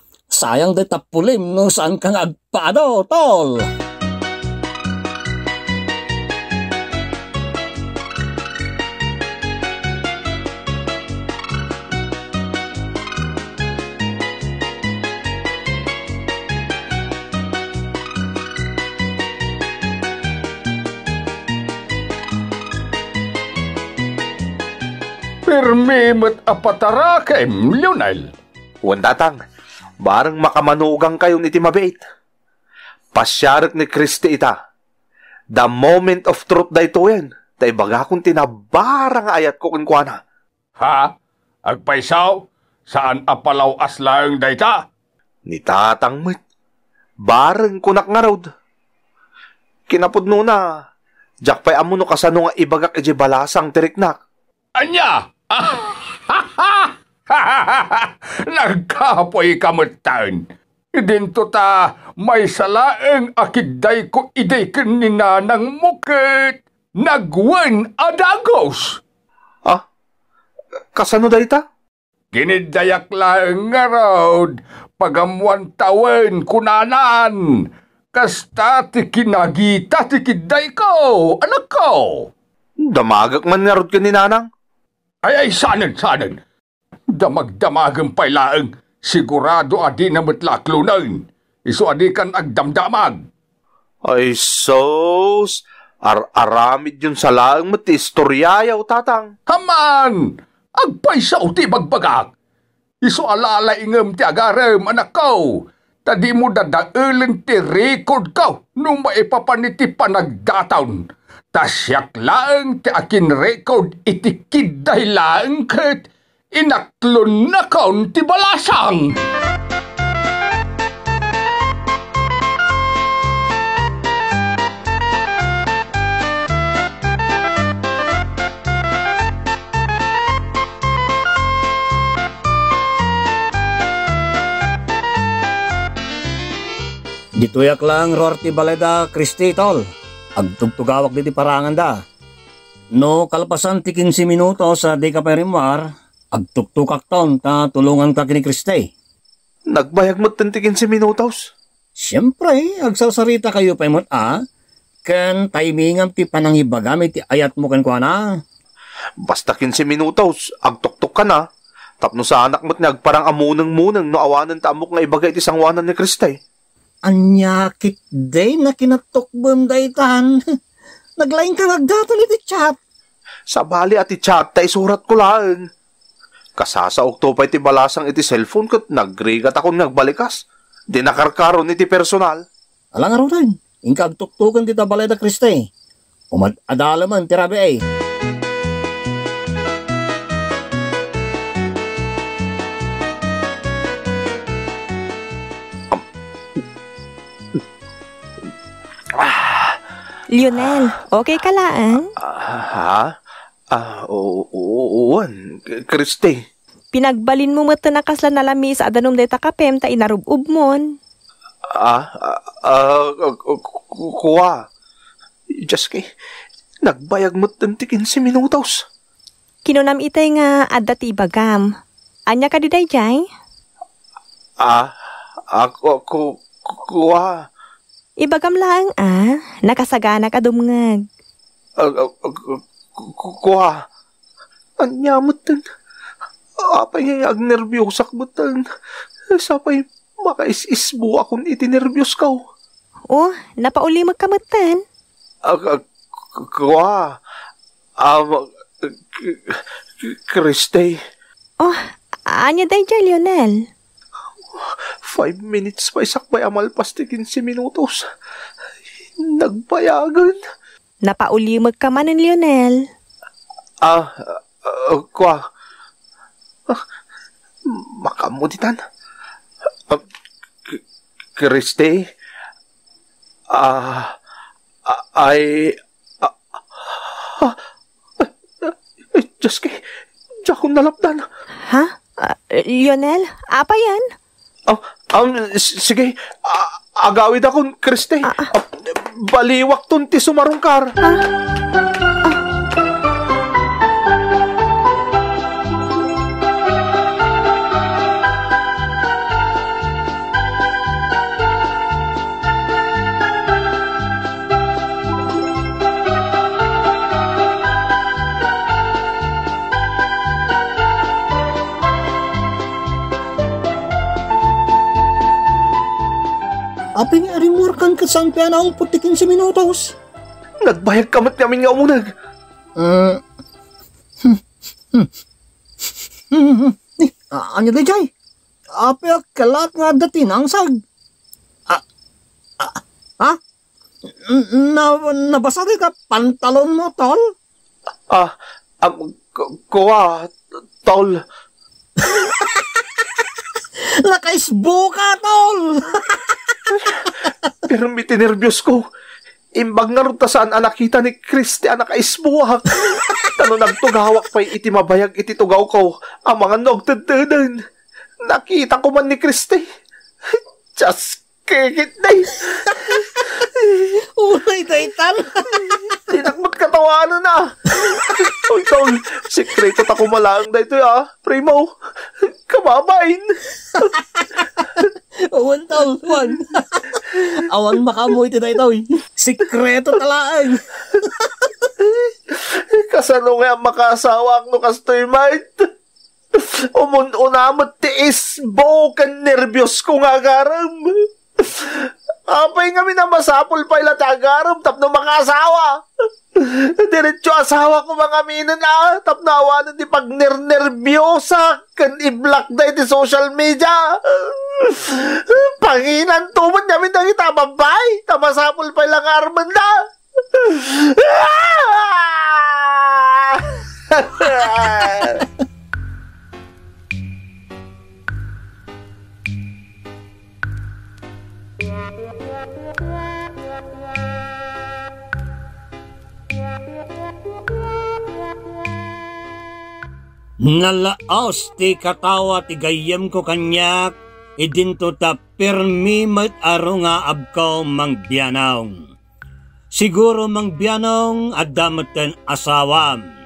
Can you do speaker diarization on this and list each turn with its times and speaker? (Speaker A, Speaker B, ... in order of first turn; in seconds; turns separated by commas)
Speaker A: 0.3-3.7, Speaker B: 25.5-28.3, Speaker C: 28.8-29.4, Speaker C: 30.0-32.0, Speaker C: 33.1-34.5, Speaker C: 35.6-40.2, Speaker B: 40.8-41.1, Speaker B: 41.7-44.8, Speaker C: 45.5-46.4, Speaker C: 47.2-48.5, Speaker C: 49.9-50.6, Speaker C: 51.5-54.2, Speaker B: 54.8-60.4, Speaker B: 61.0-69.0, Speaker C: 71.0-71.6, Speaker B: 72.3-77.4, Speaker B: 78.1-82.3, Speaker C: 82.9-84.5, Speaker B: 85.2-86.4, Speaker B: 87.1-93.2, Speaker C: 94.1-99.3, Speaker B: 99.5-102.3, Speaker B: 103.0-105.5, Speaker B: 106.1-119.2, Speaker A: 137.4-139.8, Speaker A: 140.4-142.0, Speaker A: 143.0-148.9, Speaker C: 149.7-151.5, Speaker A: 152.0-154.3, Speaker A: 155.1-158.2, Speaker C: 159.2-161.4, Speaker C: 162.0-166.4, Speaker A: 167.1-170.3, Speaker A: 171.2-172.8, Speaker C: 173.5-175.7, Speaker C: 176.6-180.4, Speaker C: 180.9-182.4, Speaker A: 183.0-185.7, Speaker A: 186.3-187.8, Speaker C: 199.1-199.8, Speaker D: 200.4-202.1, Speaker C: 200.6-200.9, Speaker C: 202.2-203.2, Speaker C: 203.7-206.4, Speaker D: 206.9-210.9, Speaker C: 211.7-214.7, Speaker C: 215.5-216.1, Speaker C: 216.8-218.8, Speaker D: 219.7-221.7, Speaker D: 222.3-223.3, Speaker C: 224.6-224.9, Speaker C: 225.5-227.5, Speaker D: 228.2-231.0, Speaker C: 231.8-233.9, Speaker C: 234.8-235.7, Speaker C: 236.6-238.7, Speaker C: 239.3-242.4, Speaker D: 243.1-244.8, Speaker C: 245.4-247.2, Speaker C: 248.0-251.0, Speaker D: 251.6-253.7, Speaker C: 254.6-258.1, Speaker C: 259.2-260.4, Speaker D: 261.1-262.8, Speaker C: 263.8-265.4, Speaker C: 267.7-268.8, Speaker C: 271.4-272.1, Speaker C: 273.5-274.2, Speaker C: 274.9-277.6, Speaker C: 278.2-279.8, Speaker C: 280.4-281.2, Speaker D: 281.7-284.1, Speaker C: 284.7-290.9, Speaker A: 317.0-319.9, Speaker C: 320.6-322.1, Speaker A: 322.8-323.2, Speaker A: 326.3-328.1, Speaker A: 328.8-330.7, Speaker A: 332.6-333.4, Speaker A: 334.3-337.2, Speaker C: 338.1-341.2, Speaker A: 344.1-346.2, Speaker C: 347.6-348.8, Speaker C: 349.6-357.6, Speaker C: 358.3-359.7, Speaker C: 360.3-362.8, Speaker C: 363.4-363.9, Speaker A: 364.2-366.0, Speaker C: 366.1-373.9, Speaker A: 373.8-381.6, Speaker C: 381.8-385.7, Speaker C: 386.3-395.7, Speaker C: 396.4-415.3, Speaker A: 430.5-438.7, Speaker A: 439.8-443.0